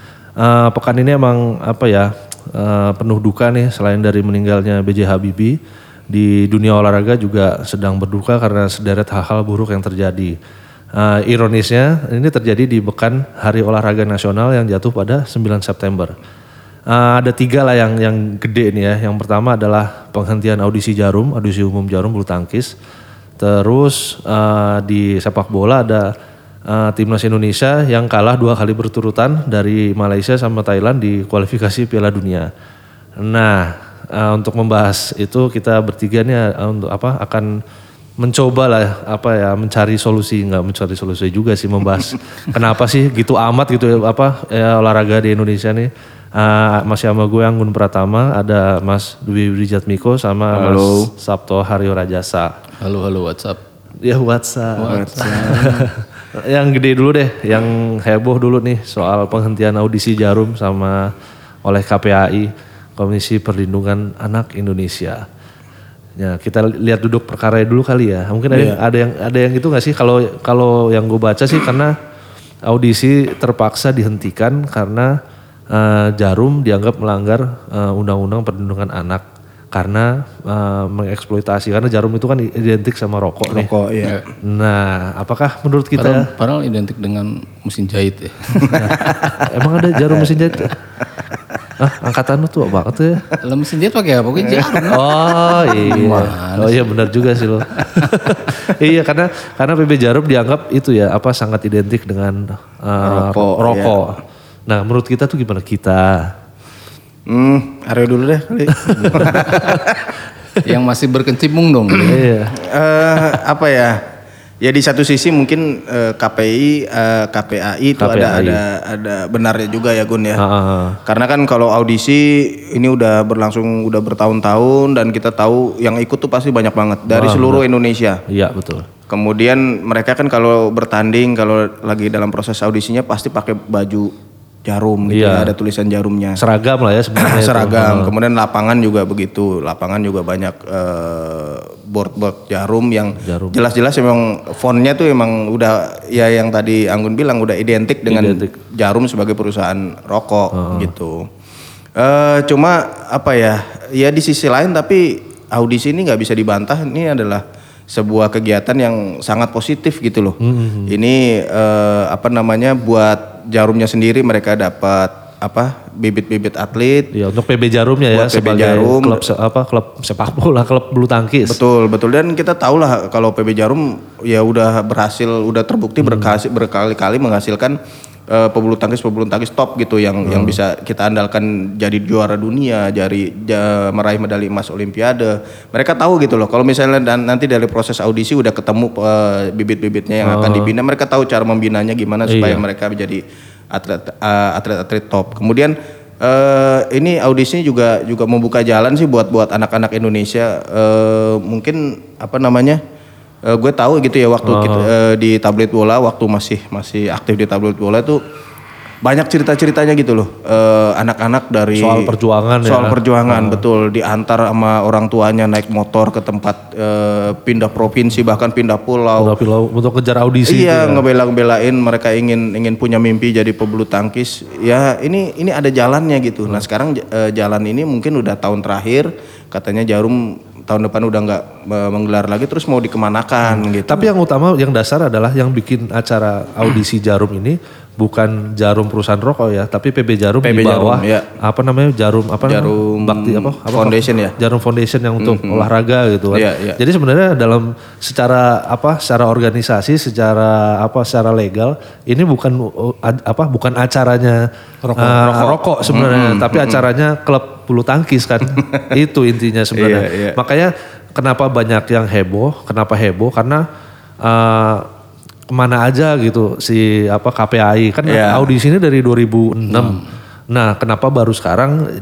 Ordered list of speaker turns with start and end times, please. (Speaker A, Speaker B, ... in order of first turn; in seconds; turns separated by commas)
Speaker A: 0.4-5.5, Speaker A: 6.1-10.3, Speaker A: 10.9-16.1, Speaker A: 16.9-22.7, Speaker A: 23.4-26.1, Speaker A: 26.7-32.5, Speaker A: 33.2-37.5, Speaker A: 38.2-52.5, Speaker B: 50.5-51.1, Speaker C: 52.8-53.6, Speaker A: 54.0-61.1, Speaker C: 54.8-55.9, Speaker B: 54.8-55.8, Speaker A: 61.6-65.2, Speaker A: 66.2-71.9, Speaker B: 68.5-68.8, Speaker A: 72.7-75.1, Speaker A: 75.7-83.7, Speaker B: 83.5-84.2, Speaker A: 84.4-86.3, Speaker C: 85.9-89.3, Speaker B: 88.6-89.1, Speaker A: 88.7-90.8, Speaker B: 90.3-90.7, Speaker A: 91.8-93.2, Speaker C: 93.4-98.4, Speaker B: 94.5-94.9, Speaker A: 94.8-106.3, Speaker B: 103.0-104.0, Speaker B: 107.3-110.1, Speaker A: 108.8-110.0, Speaker C: 109.2-109.5, Speaker C: 110.6-112.2, Speaker B: 112.0-114.0, Speaker A: 112.1-112.5, Speaker B: 114.6-120.4, Speaker A: 118.0-118.6, Speaker A: 120.4-121.0, Speaker B: 121.0-128.2, Speaker A: 127.1-127.6, Speaker A: 128.3-128.9, Speaker B: 129.1-134.1, Speaker B: 134.6-136.4, Speaker A: 135.1-135.5, Speaker A: 136.4-138.1, Speaker B: 137.2-151.3, Speaker A: 143.2-143.6, Speaker A: 148.1-148.5, Speaker A: 150.5-150.9, Speaker B: 152.0-167.1, Speaker A: 160.4-160.9, Speaker A: 167.1-171.6, Speaker B: 168.1-169.2, Speaker B: 171.5-177.8, Speaker A: 176.0-176.3, Speaker B: 178.3-202.8, Speaker A: 180.2-180.6, Speaker A: 190.2-190.7, Speaker A: 192.3-192.6, Speaker B: 203.4-208.2, Speaker A: 204.4-204.9, Speaker B: 209.0-212.1, Speaker A: 211.8-213.6, Speaker B: 212.6-219.3, Speaker A: 219.2-221.0, Speaker B: 220.5-234.1, Speaker A: 233.5-254.4, Speaker B: 240.4-241.3, Speaker B: 242.4-244.3, Speaker B: 245.2-245.7, Speaker B: 246.3-246.8, Speaker B: 254.9-256.8, Speaker A: 254.9-263.6, Speaker B: 258.6-258.9, Speaker B: 259.8-260.4, Speaker A: 264.2-264.9, Speaker A: 265.5-271.8, Speaker B: 268.1-268.5, Speaker C: 269.7-270.0